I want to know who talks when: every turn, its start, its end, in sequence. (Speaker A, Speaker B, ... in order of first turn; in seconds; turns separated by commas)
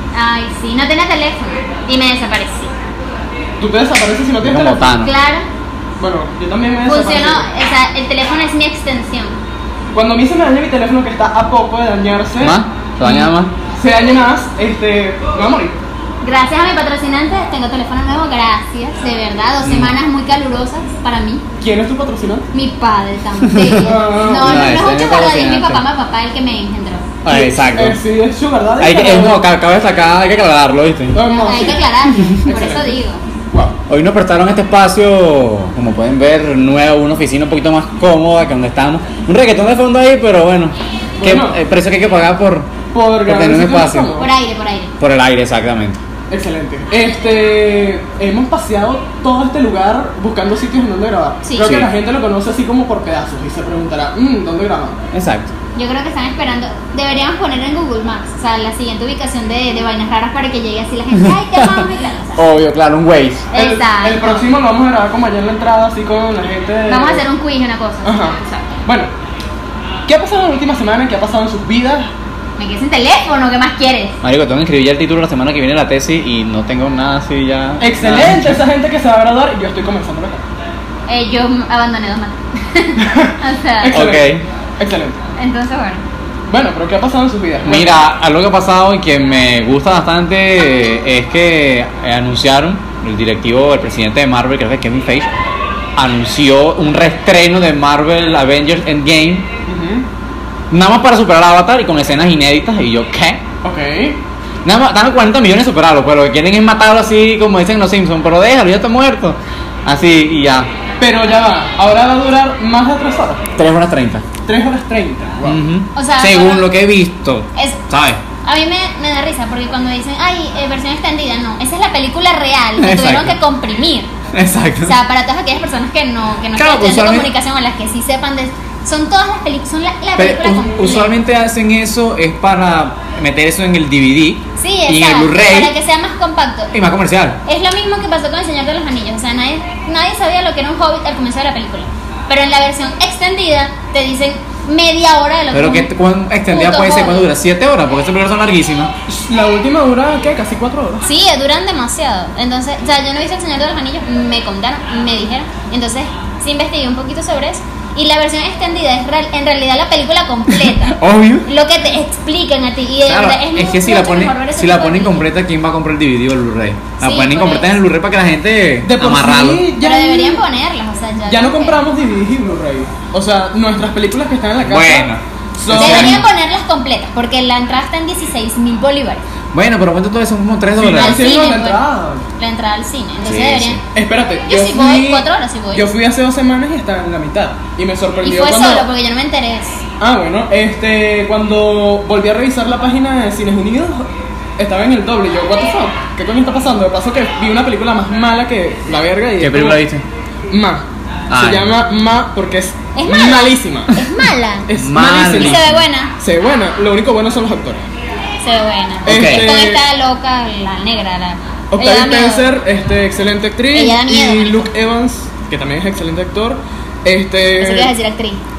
Speaker A: 0.1-2.7, Speaker B: 3.6-5.0, Speaker C: 4.4-5.1, Speaker A: 5.0-5.5, Speaker B: 6.0-7.5, Speaker A: 6.8-9.4, Speaker B: 9.9-15.8, Speaker C: 12.4-13.5, Speaker A: 16.2-21.4, Speaker C: 19.6-20.0, Speaker B: 21.6-22.5, Speaker A: 22.5-27.1, Speaker C: 23.4-25.8, Speaker B: 23.8-24.8, Speaker C: 27.2-28.0, Speaker B: 27.3-29.4, Speaker C: 28.8-31.2, Speaker B: 31.1-33.0, Speaker A: 31.3-33.2, Speaker C: 32.2-32.4, Speaker C: 33.9-44.2, Speaker B: 41.2-41.6, Speaker B: 42.9-44.3, Speaker A: 44.2-44.9, Speaker C: 45.0-46.0, Speaker B: 46.3-55.0, Speaker A: 51.4-51.7, Speaker C: 51.6-51.9, Speaker C: 55.1-55.5, Speaker A: 55.7-62.4, Speaker C: 61.1-63.5, Speaker A: 63.5-64.5, Speaker B: 63.5-67.2, Speaker A: 66.9-68.8, Speaker B: 68.0-69.1, Speaker B: 70.1-72.1, Speaker A: 72.6-74.2, Speaker C: 74.2-78.6, Speaker B: 77.8-80.4, Speaker A: 81.1-84.0, Speaker B: 83.0-85.2, Speaker C: 83.9-84.5, Speaker A: 85.4-86.0, Speaker B: 86.5-88.0, Speaker C: 87.6-95.3, Speaker C: 96.0-99.5, Speaker B: 99.7-100.1, Speaker C: 100.7-103.4, Speaker B: 103.6-104.2, Speaker C: 104.6-110.7, Speaker B: 111.0-113.5, Speaker C: 113.5-114.3, Speaker B: 114.5-115.6, Speaker C: 115.4-118.2, Speaker A: 115.9-116.7, Speaker A: 117.5-117.8, Speaker A: 118.4-124.1, Speaker C: 122.8-123.4, Speaker C: 124.3-125.0, Speaker A: 124.8-131.1, Speaker C: 126.5-127.3, Speaker C: 130.2-135.7, Speaker A: 134.6-136.7, Speaker C: 136.7-137.4, Speaker A: 137.4-145.9, Speaker C: 145.5-148.9, Speaker A: 146.5-147.3, Speaker B: 149.1-151.1, Speaker A: 151.0-165.2, Speaker C: 160.7-161.5, Speaker C: 163.0-169.7, Speaker A: 167.0-167.8, Speaker B: 168.8-170.4, Speaker A: 169.8-171.8, Speaker B: 171.3-176.2, Speaker C: 174.6-176.3, Speaker A: 175.7-179.2, Speaker C: 179.5-181.3, Speaker B: 180.8-182.3, Speaker A: 180.9-181.8, Speaker A: 182.4-183.8, Speaker C: 183.2-183.8, Speaker B: 183.9-188.9, Speaker A: 184.4-185.9, Speaker A: 188.2-189.8, Speaker B: 190.0-199.8, Speaker C: 199.4-200.0, Speaker B: 200.5-204.0, Speaker C: 201.3-201.7, Speaker A: 202.9-204.7, Speaker B: 204.7-205.7, Speaker C: 204.8-205.8, Speaker A: 205.4-206.1, Speaker B: 206.2-207.8, Speaker A: 208.4-212.4, Speaker C: 209.1-209.6, Speaker B: 209.1-209.8, Speaker B: 211.7-217.9, Speaker A: 213.7-214.7, Speaker A: 217.6-218.4